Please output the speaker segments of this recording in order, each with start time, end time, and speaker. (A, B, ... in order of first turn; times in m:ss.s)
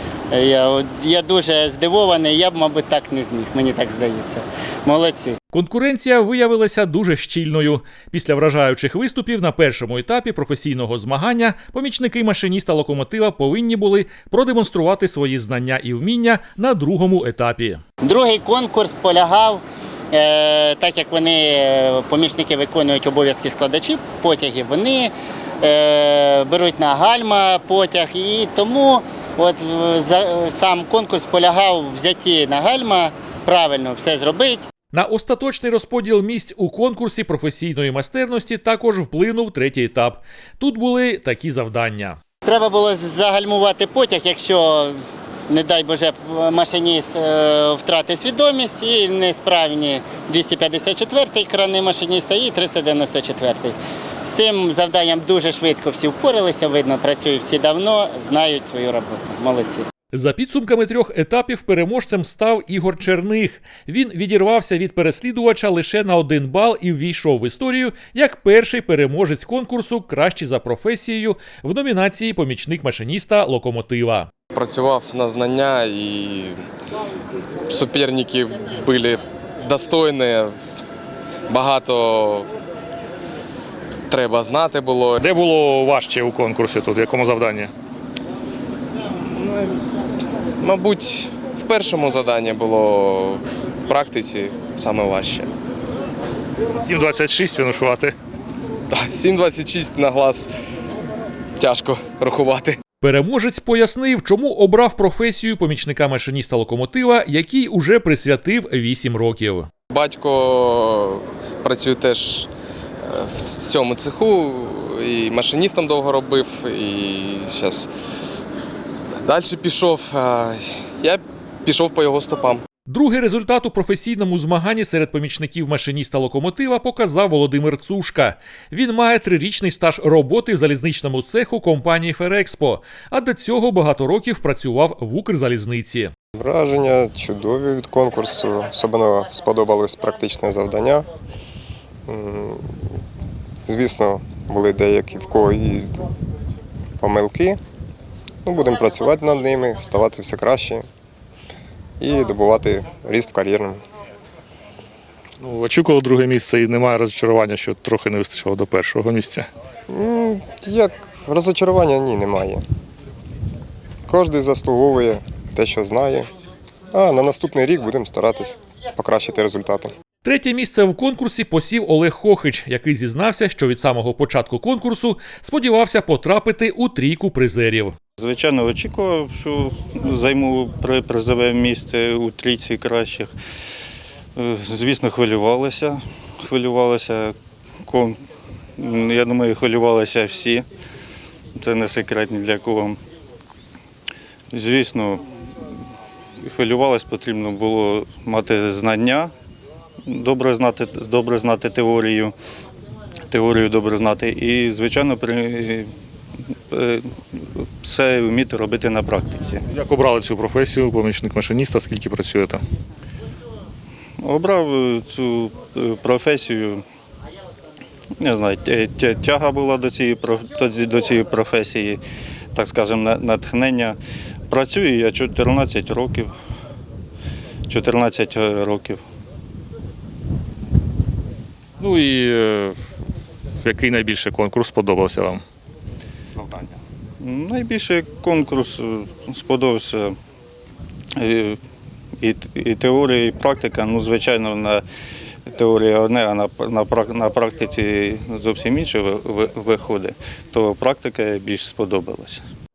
0:00.3-0:05.4 A
0:05.5-0:17.8 B
0:18.0-0:34.6 A
0:34.9-0:42.2 B
0:42.4-0:44.9 A
0:45.5-0:53.7 A
0:54.2-0:59.8 A
1:00.1-1:14.3 B
1:14.5-1:16.6 C
1:17.7-1:20.5 C
1:21.5-1:22.5 C
1:24.1-1:25.2 C
1:25.2-1:27.7 D
1:29.4-1:29.7 C
1:30.6-1:35.5 C
1:36.8-1:38.1 D
1:38.9-1:40.5 C
1:41.6-1:42.8 C
1:43.0-1:49.7 B
1:49.9-1:52.5 C
1:53.0-1:57.9 C
1:59.2-2:02.6 C
2:02.9-2:16.1 B
2:16.3-2:21.0 E
2:22.1-2:22.9 E
2:23.6-2:26.1 E
2:27.0-2:27.6 E
2:28.4-2:30.8 E
2:32.0-2:33.8 E
2:35.4-2:39.5 D
2:39.9-2:42.6 E
2:44.1-2:46.3 E
2:46.9-2:49.9 E
2:50.2-2:57.9 B
2:58.2-3:03.3 F
3:04.4-3:07.3 F
3:07.8-3:08.2 F
3:08.8-3:10.7 F
3:11.6-3:13.0 F
3:14.5-3:15.2 F
3:16.4-3:19.3 F
3:20.1-3:22.3 F
3:23.3-3:25.9 F
3:26.7-3:29.6 F
3:29.7-3:32.6 D
3:34.2-3:36.8 F
3:38.2-3:42.0 F
3:42.5-3:44.0 F
3:44.5-3:46.3 F
3:47.7-3:49.0 F
3:51.8-3:52.8 D
3:53.6-3:55.4 D
3:57.2-4:00.2 F
4:01.2-4:01.6 F
4:02.2-4:04.8 F
4:05.5-4:12.4 F